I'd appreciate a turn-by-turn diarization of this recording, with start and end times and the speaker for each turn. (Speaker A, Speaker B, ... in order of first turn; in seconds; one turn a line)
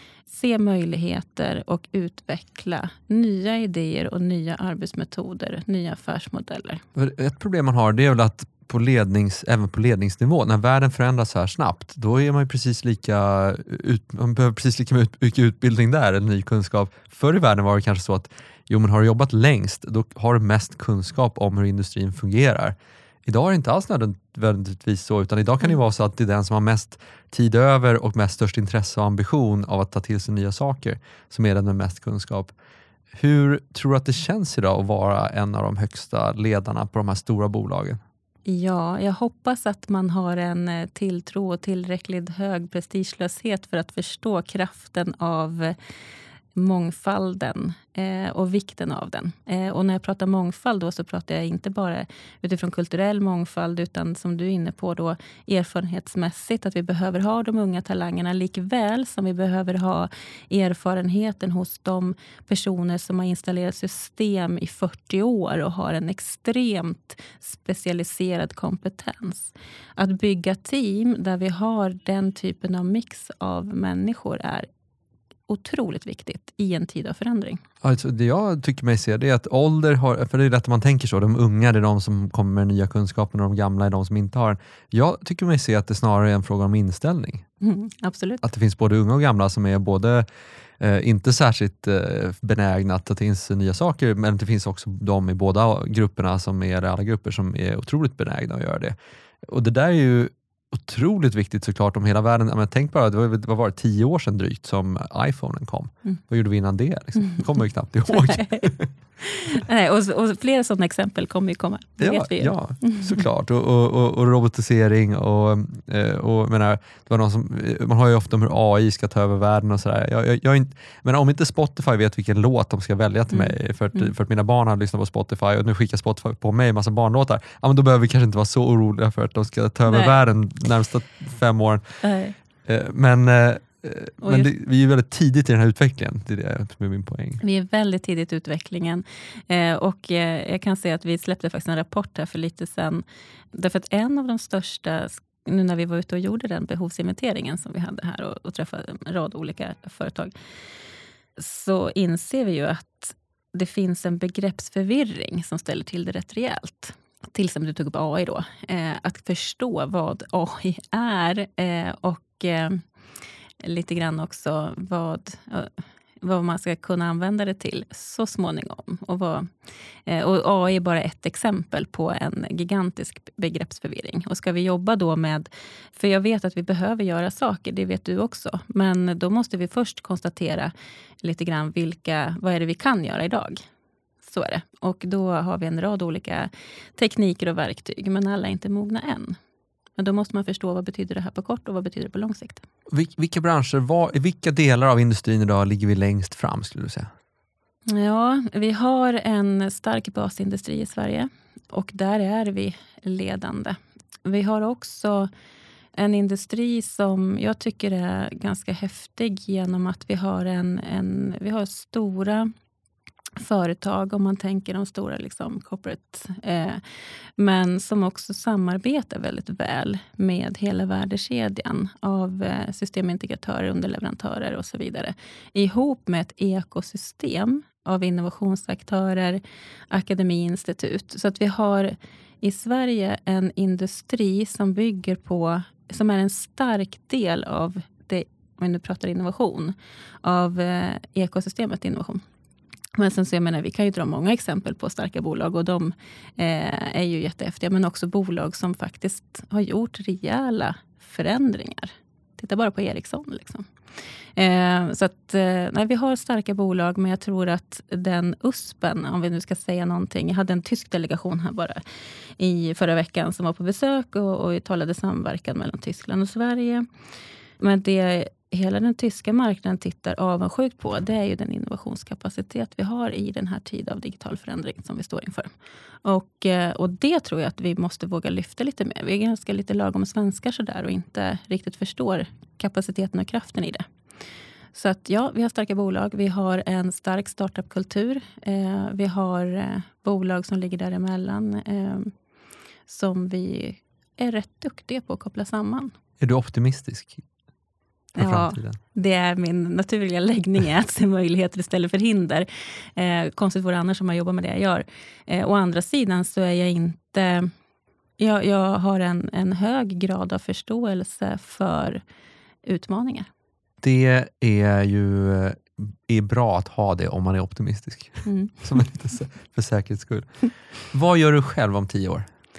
Speaker A: 0.3-6.8
Speaker B: 7.0-32.5
Speaker B: 33.1-38.0
Speaker A: 38.5-45.8
Speaker A: 46.5-74.7
Speaker A: 75.5-77.6
Speaker B: 77.8-87.4
Speaker A: 87.6-88.4
Speaker B: 88.4-90.3
Speaker B: 90.8-108.9
Speaker A: 108.1-113.2
Speaker B: 112.0-132.0
Speaker A: 123.3-124.1
Speaker A: 129.9-130.2
Speaker A: 132.0-132.4
Speaker B: 132.7-137.4
Speaker A: 134.2-134.5
Speaker A: 137.4-150.3
Speaker A: 151.4-162.8
Speaker A: 163.6-169.5
Speaker A: 170.1-183.6
Speaker A: 184.2-189.4
Speaker A: 190.0-192.6
Speaker B: 192.9-197.1
Speaker A: 197.9-205.3
Speaker A: 206.0-212.5
Speaker A: 213.4-216.8
Speaker A: 217.4-242.2
Speaker A: 243.0-253.7
Speaker A: 254.4-261.8
Speaker A: 262.4-266.9
Speaker A: 267.6-275.5
Speaker A: 276.0-283.9
Speaker A: 284.7-292.1
Speaker A: 292.9-295.9
Speaker B: 296.2-297.2
Speaker B: 298.2-298.8
Speaker A: 298.2-307.5
Speaker A: 308.2-312.0
Speaker A: 312.6-313.3
Speaker B: 313.8-320.4
Speaker A: 318.2-318.6
Speaker B: 320.9-322.3